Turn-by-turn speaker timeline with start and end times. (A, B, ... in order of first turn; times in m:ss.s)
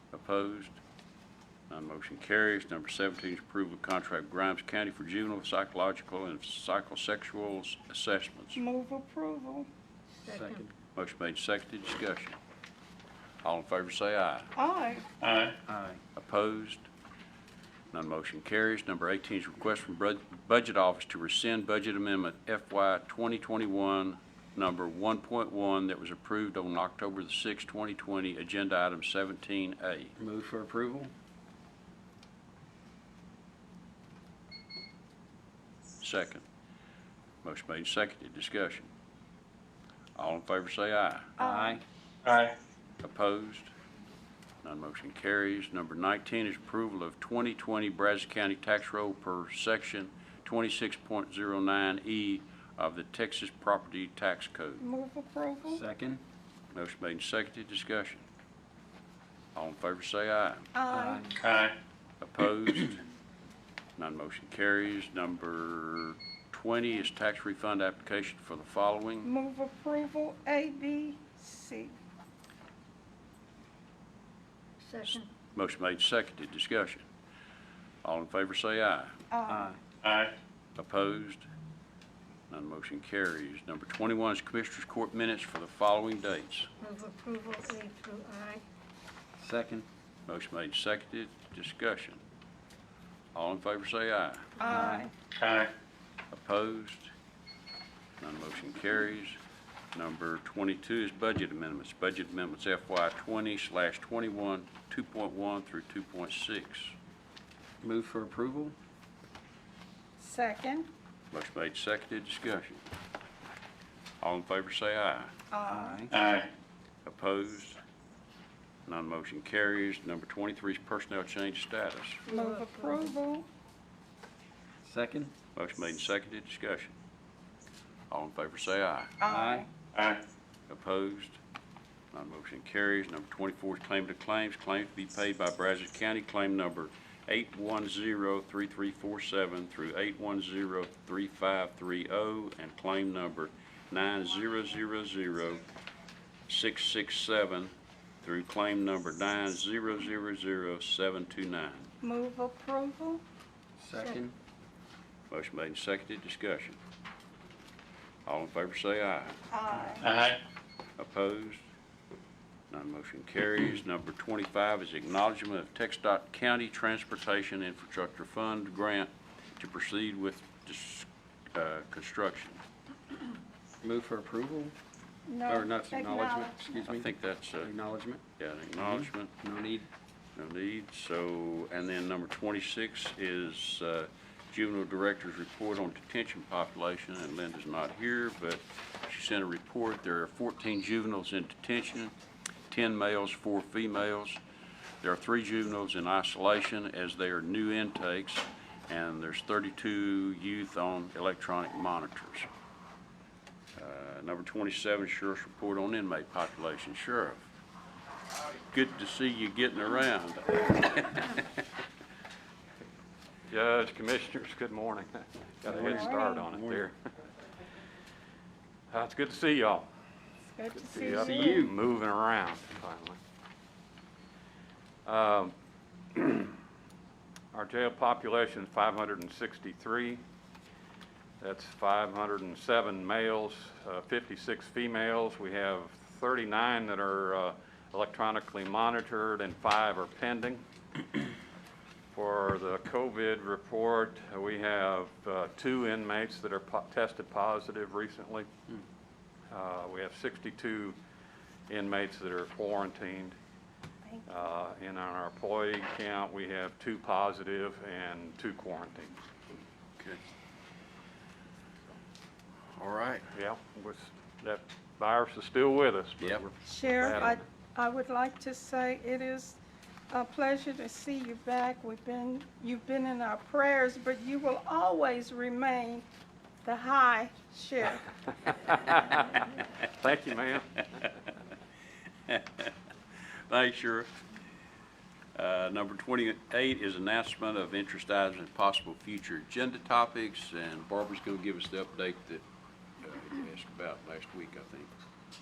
0:00.1-0:00.8 A
0:01.7-0:08.6 A
0:08.6-0:09.7 B
0:10.2-0:10.6 C
0:10.2-0:10.7 D
0:10.9-0:12.4 A
0:13.4-0:14.5 A
0:14.6-0:15.1 B
0:15.2-0:15.6 E
0:15.7-0:16.0 D
0:16.1-0:16.8 A
0:17.9-0:30.1 A
0:30.2-0:31.1 D
0:36.0-0:36.4 A
0:37.4-0:38.9 A
0:40.2-0:41.3 A
0:41.4-0:41.8 B
0:41.4-0:41.8 D
0:42.2-0:42.6 E
0:43.0-0:43.7 A
0:44.6-0:54.8 A
0:54.8-0:55.8 B
0:55.6-0:56.2 D
0:56.7-0:58.2 A
0:59.5-1:00.7 A
1:00.7-1:01.3 B
1:00.9-1:01.3 D
1:01.4-1:01.8 E
1:02.2-1:03.0 A
1:04.0-1:09.3 A
1:09.2-1:12.0 B
1:14.8-1:15.3 C
1:15.1-1:17.0 A
1:18.0-1:19.1 A
1:19.3-1:19.6 B
1:19.5-1:19.8 D
1:20.0-1:20.3 E
1:20.8-1:21.5 A
1:22.5-1:26.7 A
1:26.8-1:28.6 C
1:29.4-1:29.8 D
1:30.3-1:32.2 A
1:33.3-1:34.9 A
1:34.6-1:35.1 B
1:34.7-1:35.0 D
1:35.3-1:35.7 E
1:36.3-1:37.1 A
1:38.2-1:39.4 A
1:39.9-1:46.9 A
1:47.8-1:48.7 D
1:50.2-1:50.9 B
1:51.3-1:52.8 A
1:54.2-1:55.3 A
1:55.5-1:56.0 B
1:55.6-1:56.1 D
1:56.1-1:56.5 E
1:57.0-1:57.8 A
1:58.8-2:02.2 A
2:02.2-2:03.2 C
2:02.3-2:03.4 B
2:04.8-2:05.3 D
2:05.5-2:07.0 A
2:08.1-2:09.2 A
2:09.2-2:09.6 B
2:09.3-2:09.7 D
2:09.9-2:10.2 E
2:10.7-2:11.4 A
2:12.1-2:25.6 A
2:26.5-2:31.9 A
2:32.0-2:33.2 B
2:33.8-2:34.3 D
2:35.3-2:36.8 A
2:38.2-2:39.4 A
2:39.5-2:40.1 B
2:40.0-2:40.4 E
2:41.0-2:41.6 A
2:42.7-2:52.6 A
2:53.8-2:54.7 D
2:55.3-2:56.8 B
2:55.4-2:58.2 D
2:56.9-2:57.7 A
2:58.4-2:59.4 A
2:58.8-2:59.9 D
3:00.4-3:12.1 A
3:12.7-3:14.4 A
3:15.0-3:22.5 A
3:23.8-3:27.4 A
3:28.7-3:31.4 A
3:33.5-3:36.9 F
3:35.6-3:36.8 D
3:35.8-3:36.4 B
3:38.9-3:39.9 F
3:40.5-3:41.6 B
3:40.8-3:41.8 D
3:40.9-3:43.2 F
3:45.0-3:45.5 F
3:46.1-3:46.6 F
3:47.5-3:50.2 F
3:51.4-4:00.6 F
4:02.1-4:08.5 F
4:09.5-4:11.0 F
4:11.7-4:13.4 F
4:14.0-4:14.5 B
4:14.3-4:19.2 F
4:22.7-4:23.3 A
4:23.3-4:27.4 F
4:26.2-4:26.4 A
4:26.6-4:29.6 B
4:30.1-4:36.0 B
4:36.6-4:38.0 B
4:38.7-4:39.2 F
4:39.8-4:40.8 F
4:42.3-4:42.7 A
4:43.5-4:44.1 A
4:45.4-4:52.4 A
4:53.0-4:54.9 A